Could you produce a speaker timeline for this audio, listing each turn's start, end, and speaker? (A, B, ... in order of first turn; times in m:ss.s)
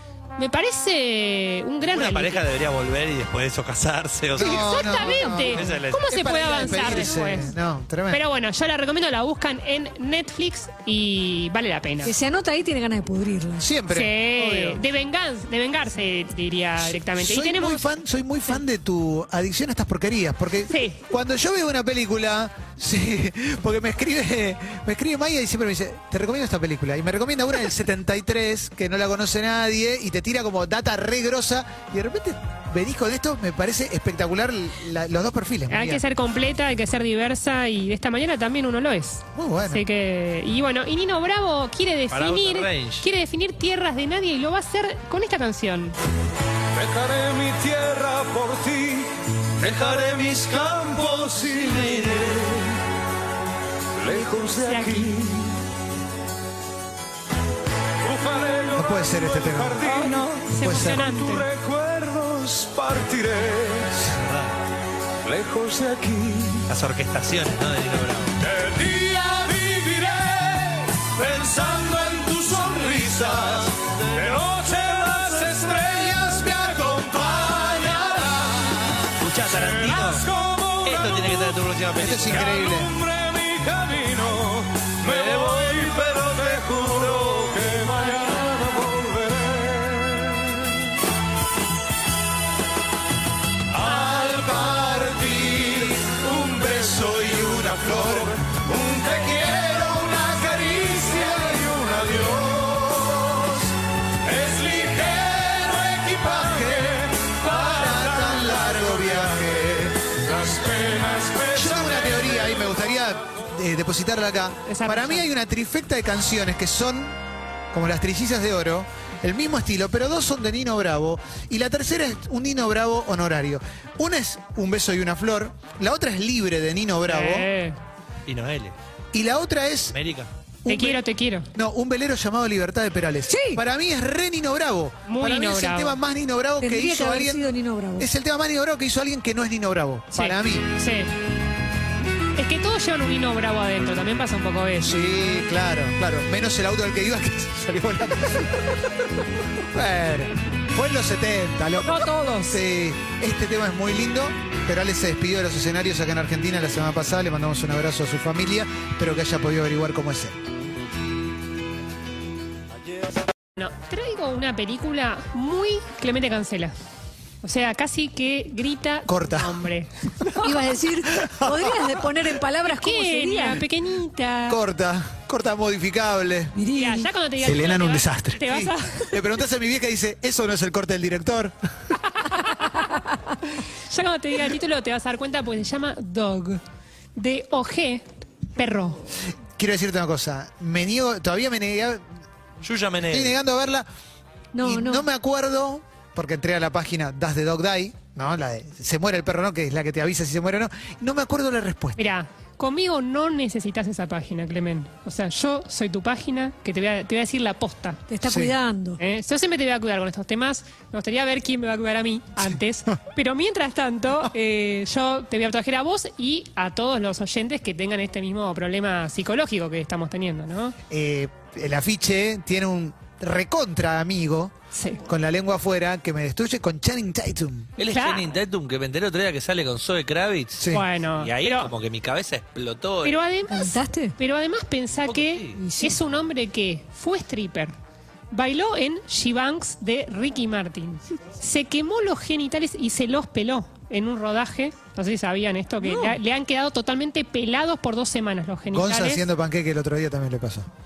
0:00.4-0:02.4 A
0:01.9-0:06.1 B
0:04.4-0:08.2 C
0:04.4-0:07.6 A
0:08.1-0:12.1 A
0:12.0-0:13.7 D
0:13.6-0:14.8 C
0:13.9-0:17.9 A
0:16.9-0:36.0 C
0:20.7-0:21.0 A
0:35.7-0:46.0 A
0:39.4-0:39.8 C
0:42.1-0:43.1 B
0:46.8-0:49.1 E
0:49.6-0:52.8 B
0:49.6-0:51.9 E
0:54.0-0:55.6 E
0:54.6-0:55.1 A
0:58.0-1:04.0 E
0:58.8-0:59.8 C
0:59.8-1:01.5 A
1:00.6-1:01.1 C
1:04.0-1:04.5 B
1:05.2-1:06.7 E
1:06.7-1:08.4 B
1:08.4-1:18.8 E
1:17.5-1:19.0 C
1:19.2-1:20.3 B
1:19.5-1:21.6 E
1:20.8-1:22.6 B
1:22.0-1:22.9 C
1:22.3-1:30.5 E
1:25.1-1:26.2 B
1:33.8-1:38.6 C
1:34.0-1:42.5 E
1:39.7-1:43.7 C
1:44.3-1:49.2 E
1:46.1-1:50.2 C
1:50.3-1:52.6 E
1:51.5-1:57.2 C
1:54.7-1:55.3 A
1:57.7-2:07.5 C
2:07.1-2:07.8 A
2:08.3-2:08.8 B
2:09.1-2:10.0 C
2:09.9-2:10.3 B
2:10.6-2:11.0 C
2:10.7-2:11.5 A
2:11.5-2:17.5 C
2:13.3-2:13.6 D
2:15.1-2:16.0 A
2:16.6-2:18.1 D
2:18.0-2:20.7 C
2:20.1-2:21.1 A
2:22.4-2:25.0 A
2:24.8-2:28.8 C
2:29.7-2:40.4 C
2:31.8-2:32.6 A
2:43.6-2:46.7 A
2:47.4-2:50.5 A
2:49.1-2:49.6 C
2:50.4-2:53.6 D
2:51.1-2:52.2 C
2:52.7-2:54.6 A
2:54.5-2:56.6 C
2:56.6-2:57.1 D
2:56.7-2:59.2 A
2:57.4-3:01.6 C
3:02.1-3:03.0 A
3:03.6-3:06.6 A
3:07.2-3:09.1 A
3:09.6-3:12.0 C
3:12.6-3:13.4 B
3:13.0-3:13.9 C
3:14.5-3:15.0 D
3:14.6-3:22.0 C
3:22.0-3:28.0 A
3:28.1-3:29.0 D
3:28.2-3:28.6 C
3:29.0-3:40.8 A
3:40.9-3:47.7 C
3:44.7-3:45.0 A
3:47.8-3:53.2 B
3:47.8-3:48.3 A
3:50.6-3:50.8 C
3:50.7-3:51.7 A
3:53.0-3:57.8 A
3:53.5-3:54.2 D
3:55.1-3:55.6 B
3:55.6-3:56.0 D
3:58.3-4:09.2 A
4:05.8-4:06.2 D
4:08.7-4:10.7 C